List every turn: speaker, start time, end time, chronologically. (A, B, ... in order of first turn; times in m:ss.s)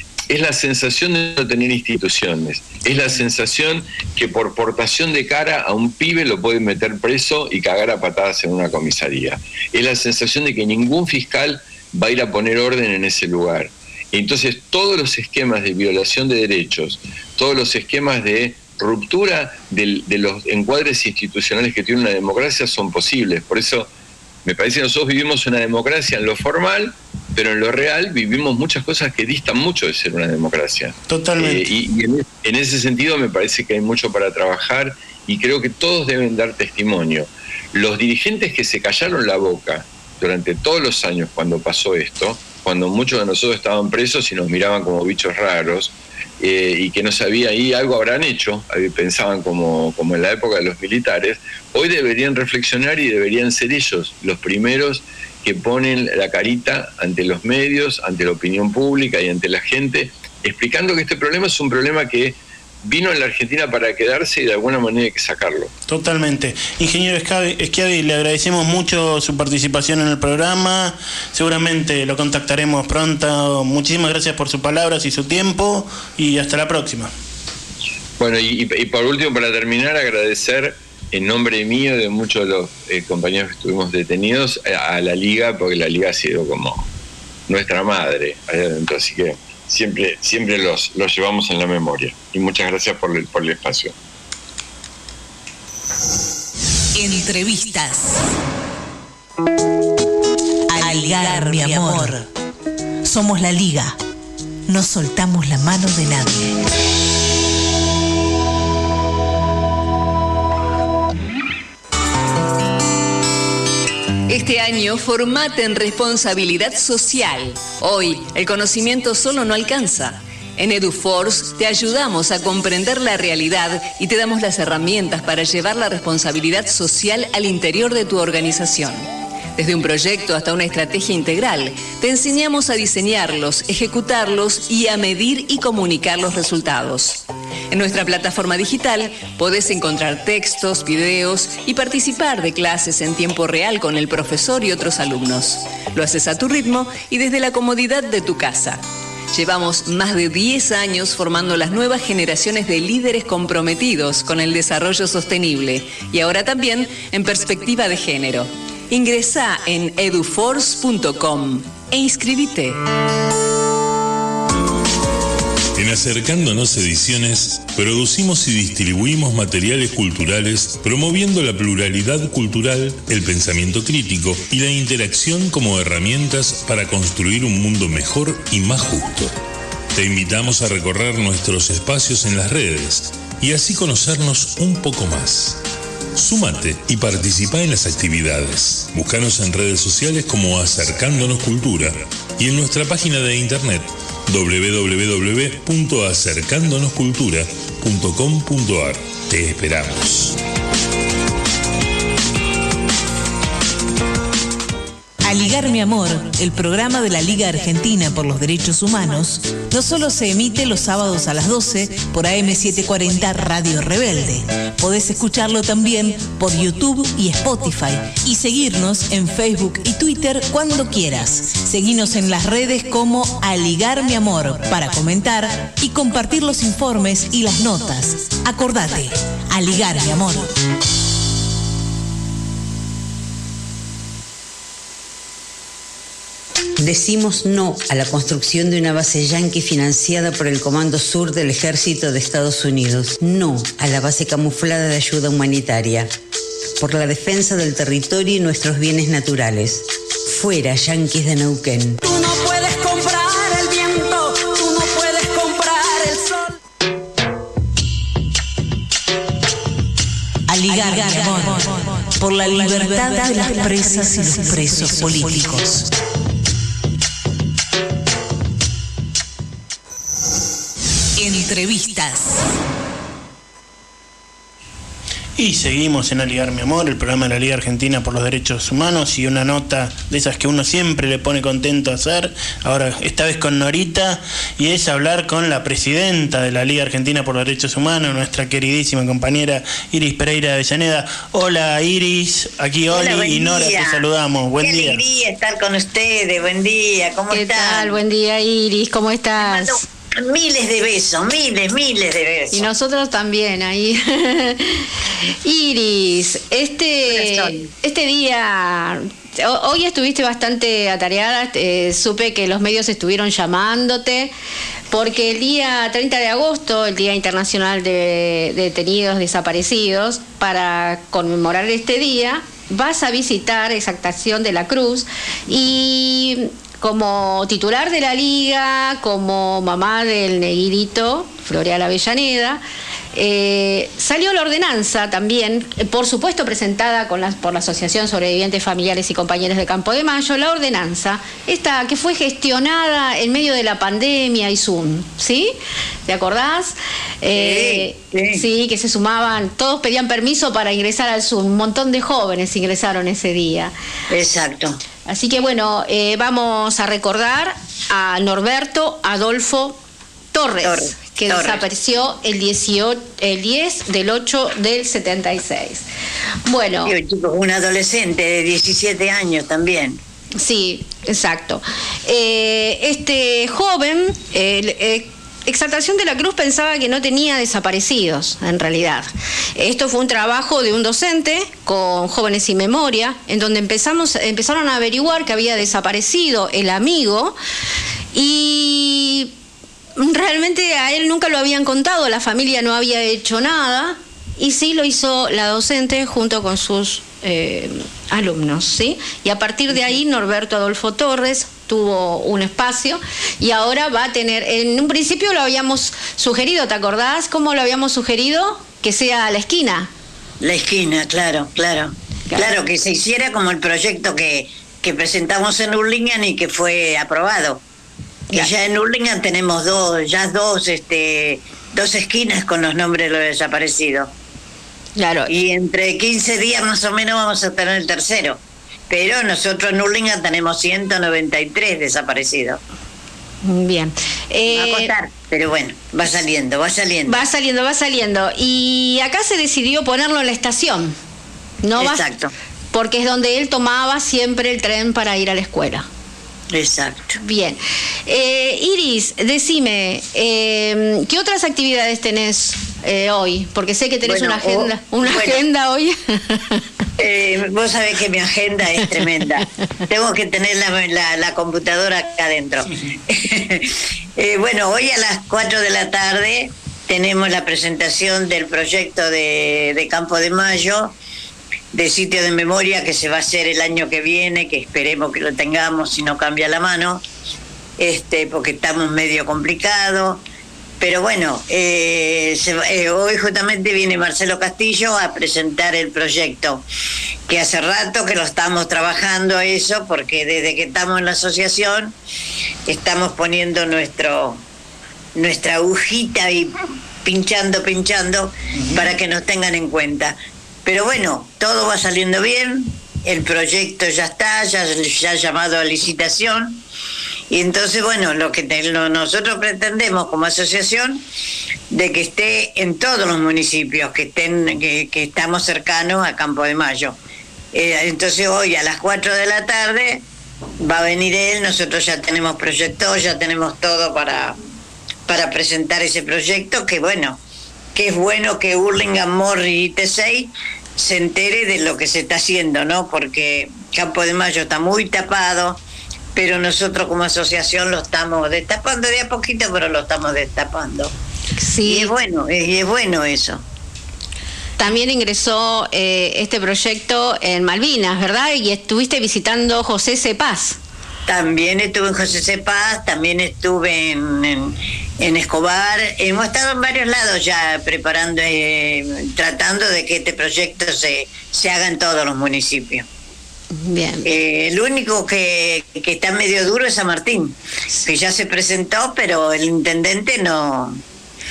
0:00.3-0:23.9 A
0:24.4-1:05.7 A
0:31.1-0:31.6 B
1:05.9-1:17.1 B
1:18.2-1:26.9 A
1:27.5-1:33.9 A
1:37.0-1:38.3 C
1:40.7-1:42.3 C
1:43.0-1:44.0 C
1:44.7-1:46.6 C
1:54.3-2:42.8 D
2:45.8-2:59.3 E
2:59.9-3:05.6 E
3:06.2-3:20.4 E
3:25.2-3:50.5 C
3:56.8-4:06.1 F
4:06.8-4:12.0 F
4:12.1-4:16.2 G
4:20.5-4:25.9 C
4:31.2-4:32.5 C
4:35.4-4:55.0 B
4:52.9-4:54.1 H
4:54.6-4:58.0 H
4:57.3-4:59.8 I
4:59.4-5:02.7 H
5:02.5-5:04.8 I
5:05.4-5:14.3 I
5:07.1-5:07.7 H
5:14.9-5:32.6 I
5:33.2-5:45.5 I
5:46.1-5:53.7 I
5:47.3-5:48.4 H
5:54.1-5:54.8 H
5:55.0-5:59.8 I
6:00.3-6:05.8 I
6:00.6-6:01.6 H
6:06.5-6:06.9 I
6:06.8-6:10.0 H
6:10.4-6:27.4 I
6:28.1-6:29.3 I
6:30.0-6:49.9 I
6:50.4-6:57.6 H
6:52.3-6:52.6 I
6:58.3-7:04.1 H
7:05.0-7:05.3 I
7:05.3-7:12.6 H
7:13.4-7:14.9 I
7:14.5-7:17.2 H
7:17.1-7:21.0 I
7:21.6-7:22.0 I
7:21.8-7:22.3 H
7:22.7-7:25.9 I
7:26.5-7:27.2 H
7:27.2-7:36.6 I
7:34.1-7:35.4 H
7:37.0-7:51.0 H
7:51.7-7:57.0 H
7:57.8-8:00.2 H
8:00.8-8:06.6 H
8:07.3-8:11.9 H
8:12.7-8:14.4 H
8:15.2-8:26.6 H
8:18.6-8:18.9 B
8:27.3-8:31.0 H
8:31.7-8:37.0 H
8:37.5-8:40.0 H
8:40.6-8:44.4 H
8:45.1-8:47.2 H
8:47.8-8:55.6 H
8:56.2-9:00.9 H
9:01.4-9:01.9 I
9:01.6-9:03.4 H
9:04.6-9:10.6 I
9:11.1-9:22.9 H
9:23.6-9:24.1 I
9:24.0-9:30.8 H